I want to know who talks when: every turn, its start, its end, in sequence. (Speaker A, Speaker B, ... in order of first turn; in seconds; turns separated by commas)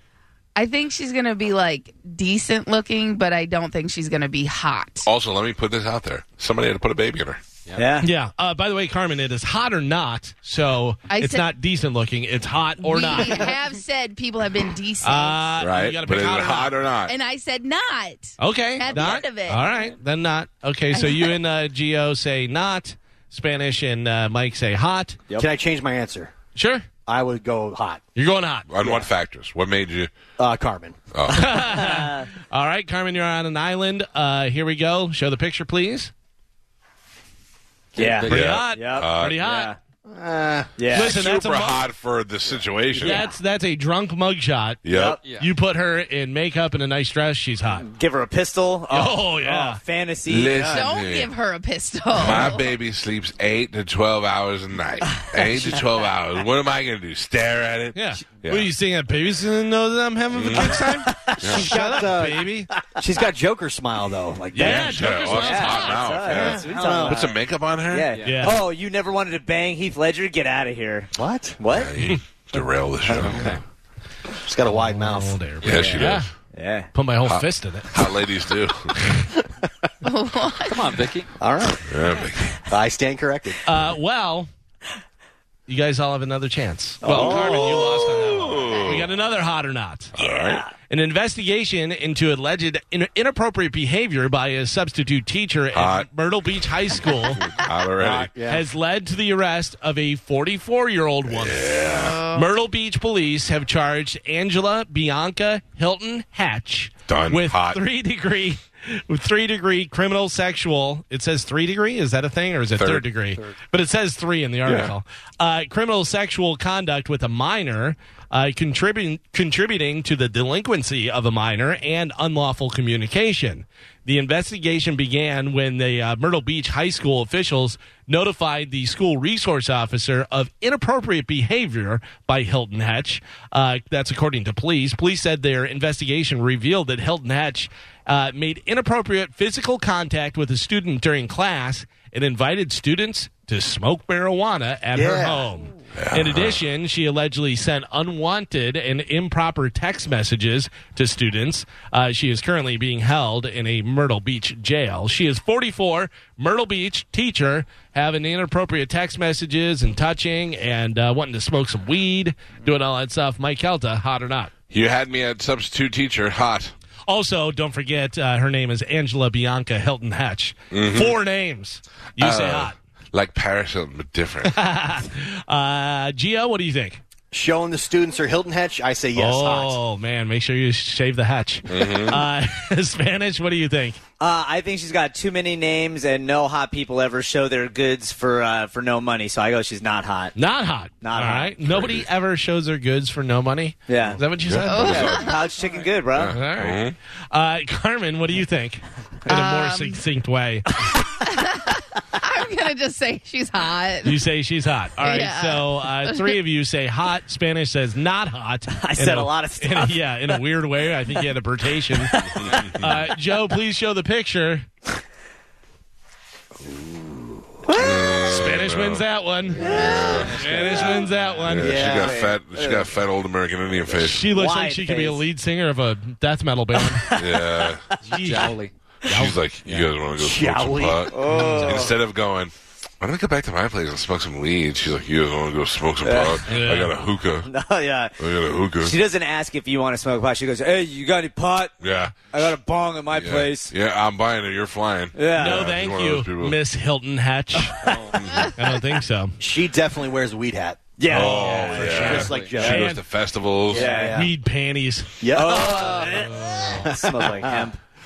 Speaker A: 0.6-5.1, Speaker B: 5.0-7.4, Speaker C: 7.7-8.1, Speaker D: 8.0-13.5, Speaker A: 11.1-11.5, Speaker A: 12.8-15.5, Speaker D: 15.0-16.8, Speaker B: 15.6-17.1, Speaker A: 17.0-19.9, Speaker D: 18.4-25.2, Speaker A: 20.9-21.3, Speaker E: 25.4-26.3, Speaker D: 26.6-26.9, Speaker E: 27.1-28.0, Speaker D: 28.1-28.7, Speaker B: 28.7-30.1, Speaker E: 28.8-29.1, Speaker E: 30.4-31.0, Speaker B: 31.1-31.9, Speaker D: 31.3-36.1, Speaker C: 31.8-32.2, Speaker C: 38.0-39.8, Speaker F: 38.0-38.3, Speaker B: 38.2-39.4, Speaker D: 38.2-39.7, Speaker E: 40.1-40.8, Speaker C: 40.8-41.2, Speaker B: 40.9-43.2, Speaker D: 40.9-41.9, Speaker D: 43.0-44.8, Speaker C: 43.0-43.3, Speaker B: 44.8-45.2, Speaker C: 44.9-45.2, Speaker F: 45.2-45.5, Speaker D: 45.4-47.9, Speaker C: 47.8-50.9, Speaker D: 48.9-49.8, Speaker B: 50.3-51.3, Speaker A: 50.7-52.7, Speaker B: 52.1-58.7, Speaker C: 55.1-55.8, Speaker D: 57.9-62.7, Speaker B: 60.3-61.7, Speaker C: 61.0-61.4, Speaker E: 61.4-65.2, Speaker D: 64.5-66.2, Speaker C: 64.6-67.3, Speaker B: 64.6-68.1, Speaker E: 66.3-67.3, Speaker C: 67.9-71.9, Speaker F: 68.1-68.5, Speaker D: 68.2-68.6, Speaker E: 71.1-71.6, Speaker B: 71.7-73.5, Speaker F: 73.1-73.6, Speaker E: 74.4-75.4, Speaker D: 74.7-76.3, Speaker B: 75.6-76.3, Speaker C: 75.7-75.9, Speaker C: 76.5-76.9, Speaker D: 76.9-78.0, Speaker B: 77.2-78.9, Speaker D: 79.0-79.2, Speaker A: 80.0-81.0, Speaker F: 80.7-81.3, Speaker E: 81.4-81.8, Speaker B: 81.8-82.6, Speaker E: 82.7-83.6, Speaker D: 83.7-84.5, Speaker D: 85.7-90.1, Speaker E: 87.0-87.6, Speaker C: 87.2-87.9, Speaker B: 87.2-89.1, Speaker B: 90.2-90.7, Speaker C: 90.2-90.7, Speaker D: 90.9-97.4, Speaker B: 95.7-96.1, Speaker B: 97.4-98.3, Speaker E: 98.0-98.6, Speaker D: 98.5-164.5, Speaker B: 101.3-102.2, Speaker A: 101.8-102.5, Speaker B: 107.1-107.8, Speaker B: 112.7-113.1, Speaker B: 114.6-114.9, Speaker E: 144.9-145.5, Speaker B: 145.9-146.6, Speaker B: 164.7-166.7, Speaker D: 167.1-172.8, Speaker B: 170.7-171.2, Speaker B: 172.2-174.6, Speaker D: 174.4-177.0, Speaker E: 177.3-179.8, Speaker D: 179.2-184.0, Speaker B: 181.7-182.2, Speaker C: 184.2-190.3, Speaker D: 190.3-195.1, Speaker C: 191.0-191.5, Speaker B: 191.6-192.1, Speaker C: 193.9-194.2, Speaker B: 194.4-195.3, Speaker A: 194.6-195.6, Speaker C: 194.8-196.3, Speaker B: 196.1-196.9, Speaker D: 196.3-196.8, Speaker D: 197.3-200.7, Speaker A: 199.3-200.0, Speaker A: 201.2-204.2, Speaker D: 204.0-212.2, Speaker A: 205.0-206.3, Speaker C: 208.8-210.3, Speaker C: 211.9-212.7, Speaker B: 212.3-213.0, Speaker D: 212.7-214.7, Speaker C: 217.6-218.3, Speaker B: 217.8-219.0, Speaker D: 218.3-221.9, Speaker C: 219.6-221.1, Speaker B: 219.7-220.4, Speaker F: 220.4-221.5, Speaker B: 221.4-224.3, Speaker E: 221.5-222.2, Speaker C: 221.7-222.9, Speaker D: 224.0-227.0, Speaker C: 224.3-225.2, Speaker C: 226.8-227.8, Speaker B: 227.1-227.8, Speaker F: 228.0-228.7, Speaker D: 228.0-229.4, Speaker B: 229.1-237.5, Speaker F: 229.6-229.9, Speaker E: 230.2-231.3, Speaker C: 231.1-231.9, Speaker D: 231.3-231.8, Speaker C: 236.0-236.4, Speaker D: 236.5-236.9, Speaker C: 237.5-238.2, Speaker B: 238.2-239.0, Speaker C: 238.8-241.8, Speaker B: 241.8-242.5, Speaker C: 242.3-243.7, Speaker B: 243.1-246.6, Speaker C: 245.2-245.7, Speaker D: 245.3-247.8, Speaker B: 248.1-248.5, Speaker D: 248.6-249.3, Speaker E: 249.4-250.9, Speaker C: 251.0-252.8, Speaker B: 251.1-253.9, Speaker D: 251.1-253.0, Speaker E: 251.5-252.9, Speaker F: 252.1-252.6, Speaker E: 253.7-254.3, Speaker C: 253.7-254.2, Speaker D: 254.1-256.8, Speaker E: 255.2-256.3, Speaker C: 255.3-257.8, Speaker E: 256.8-257.7